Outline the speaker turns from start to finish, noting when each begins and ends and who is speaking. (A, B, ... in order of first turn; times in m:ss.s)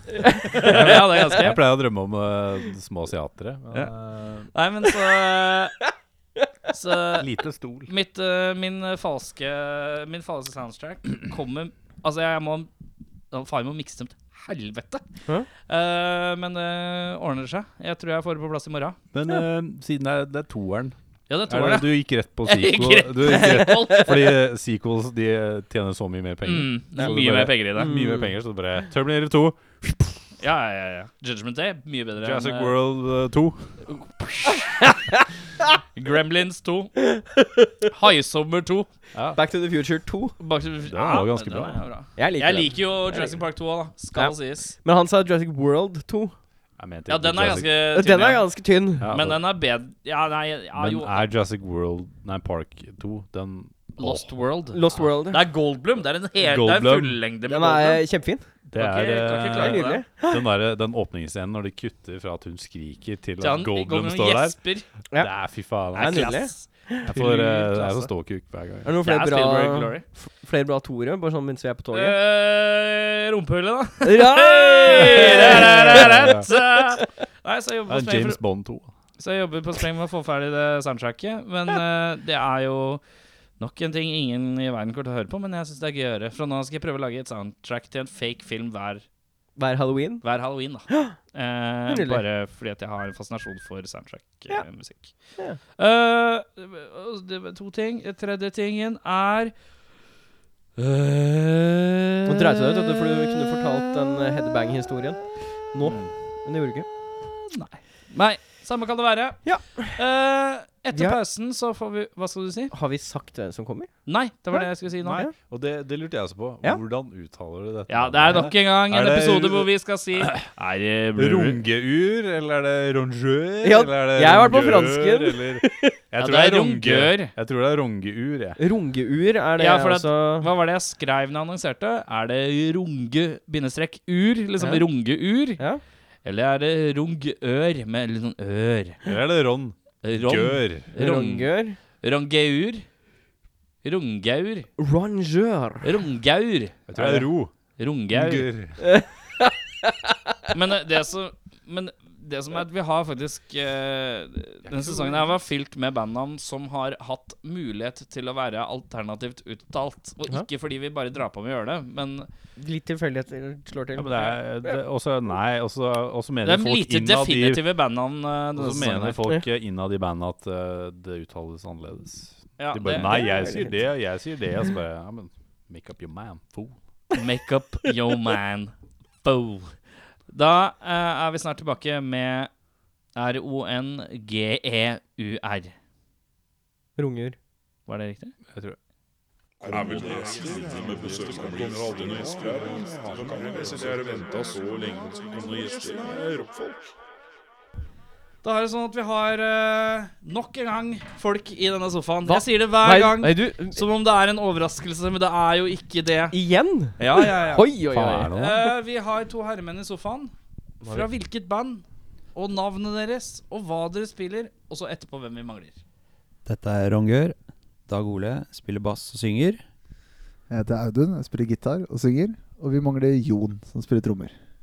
0:00.2-0:01.1 A
0:00.4-0:04.5 B
0:00.5-0:01.6 C
0:04.5-0:05.8 C
0:06.7-0:07.3 C
0:07.2-0:07.9 B
0:07.9-0:12.7 C
0:13.3-0:15.0 C
0:15.6-0:19.0 C
0:19.1-0:21.0 B
0:21.3-0:24.2 C
0:21.5-0:30.3 B
0:23.3-0:24.0 A
0:26.4-0:28.0 C
0:27.8-0:28.3 A
0:30.4-0:32.8 C
0:32.2-0:34.0 B
0:34.0-0:34.8 C
0:36.0-0:36.9 C
0:37.0-0:37.7 A
0:37.9-0:38.9 C
0:39.1-0:39.4 B
0:39.4-0:40.4 A
0:40.4-0:44.8 C
0:40.9-0:41.8 B
0:42.2-0:43.4 A
0:44.1-0:46.3 A
0:46.8-0:47.7 B
0:47.1-0:51.2 C
0:47.9-0:49.1 A
0:49.0-0:49.4 B
0:50.8-0:54.3 B
0:54.0-0:58.0 C
0:54.7-0:55.4 A
0:56.4-0:57.2 B
0:57.5-0:58.5 A
0:58.7-1:04.6 B
0:58.8-1:00.0 C
0:59.6-1:00.4 A
1:03.4-1:04.9 C
1:05.2-1:06.4 B
1:05.9-1:07.1 A
1:06.0-1:08.1 C
1:07.1-1:08.9 B
1:08.8-1:12.2 A
1:09.0-1:10.1 C
1:11.9-1:18.4 C
1:14.0-1:17.1 A
1:15.0-1:16.5 B
1:17.9-1:18.9 B
1:19.2-1:23.0 C
1:23.6-1:29.0 C
1:29.6-1:30.2 A
1:30.2-1:39.5 C
1:30.9-1:31.2 A
1:31.9-1:32.2 A
1:40.8-1:42.6 C
1:42.3-1:46.9 A
1:45.9-1:46.1 B
1:47.4-1:52.7 C
1:49.4-1:50.0 A
1:50.9-1:51.2 A
1:52.7-1:53.9 A
1:54.1-1:55.3 C
1:54.5-1:55.3 A
1:55.0-2:00.5 B
1:57.9-2:01.6 C
2:01.2-2:08.6 B
2:03.6-2:06.0 A
2:06.2-2:07.3 C
2:08.6-2:10.5 A
2:09.6-2:15.6 C
2:14.6-2:14.9 A
2:16.2-2:19.1 C
2:19.0-2:20.9 B
2:20.0-2:22.9 C
2:20.9-2:21.8 A
2:23.8-2:24.7 C
2:24.8-2:25.9 A
2:25.8-2:28.5 C
2:26.9-2:27.5 B
2:28.1-2:28.8 B
2:28.8-2:30.1 A
2:30.5-2:42.3 C
2:42.6-2:44.8 A
2:44.0-2:47.6 B
2:46.4-2:49.2 C
2:48.6-2:56.8 B
2:52.6-2:53.2 C
2:53.0-2:53.8 A
2:57.1-2:59.8 C
3:00.3-3:02.5 C
3:03.2-3:05.7 C
3:07.0-3:07.4 A
3:07.9-3:08.3 C
3:08.5-3:08.8 B
3:09.6-3:16.8 B
3:18.4-3:26.4 C
3:22.3-3:23.8 A
3:26.3-3:28.3 A
3:27.0-3:30.3 C
3:27.9-3:28.7 B
3:30.8-3:31.8 C
3:32.4-3:35.8 C
3:36.4-3:37.4 D
3:37.9-3:39.6 D
3:40.5-3:44.4 E